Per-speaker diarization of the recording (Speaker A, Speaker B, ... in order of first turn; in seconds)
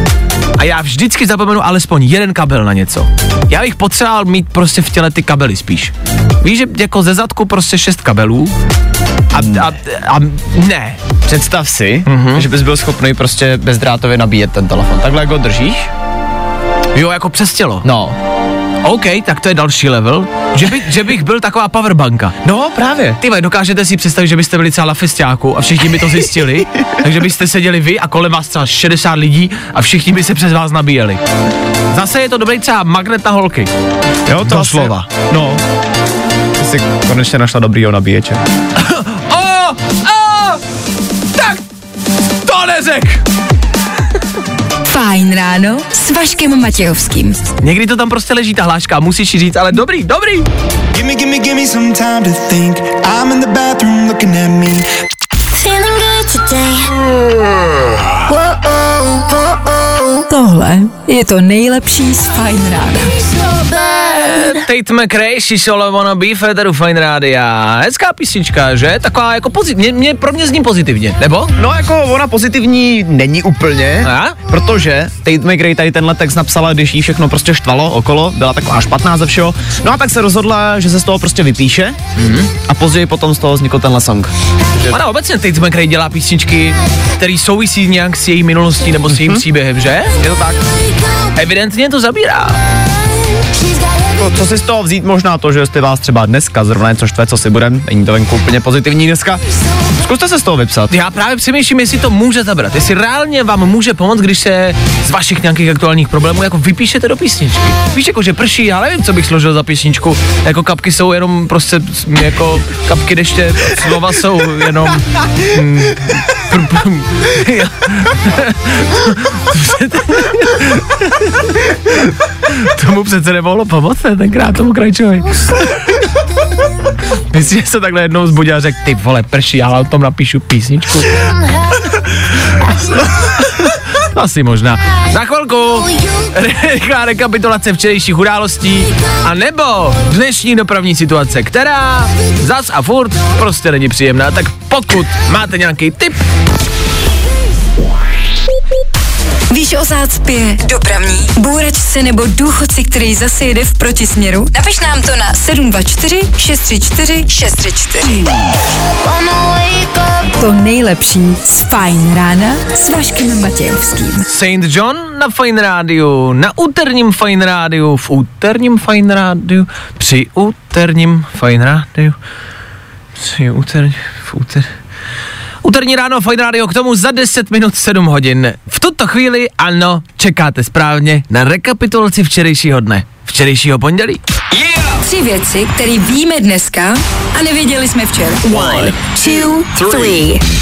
Speaker A: 0.6-8.5, 9.3-11.0, 12.1-12.5, 16.9-17.9, 18.8-22.4, 23.2-31.2, 31.9-33.7, 34.4-35.1, 38.8-40.6, 41.4-41.6, 42.4-43.2, 47.6-50.5, 64.0-71.5, 74.0-74.3, 82.2-82.5, 84.9-90.1, 91.3-92.6, 100.9-126.0, 127.3-131.2, 132.7-146.2, 164.2-172.2, 173.2-174.7, 175.6-184.2
Speaker B: 9.3-9.7, 11.2-15.9, 17.8-18.1, 22.4-23.2, 34.3-35.6, 36.6-38.4, 71.5-82.0, 82.6-84.3, 89.1-89.4, 90.2-90.6, 94.2-99.4, 100.0-100.9
Speaker C: 44.9-47.4, 60.3-63.1, 149.5-158.3, 160.4-164.2, 185.0-190.4
Speaker D: 50.9-54.9
Speaker E: 55.5-56.9, 58.3-59.0, 159.0-160.3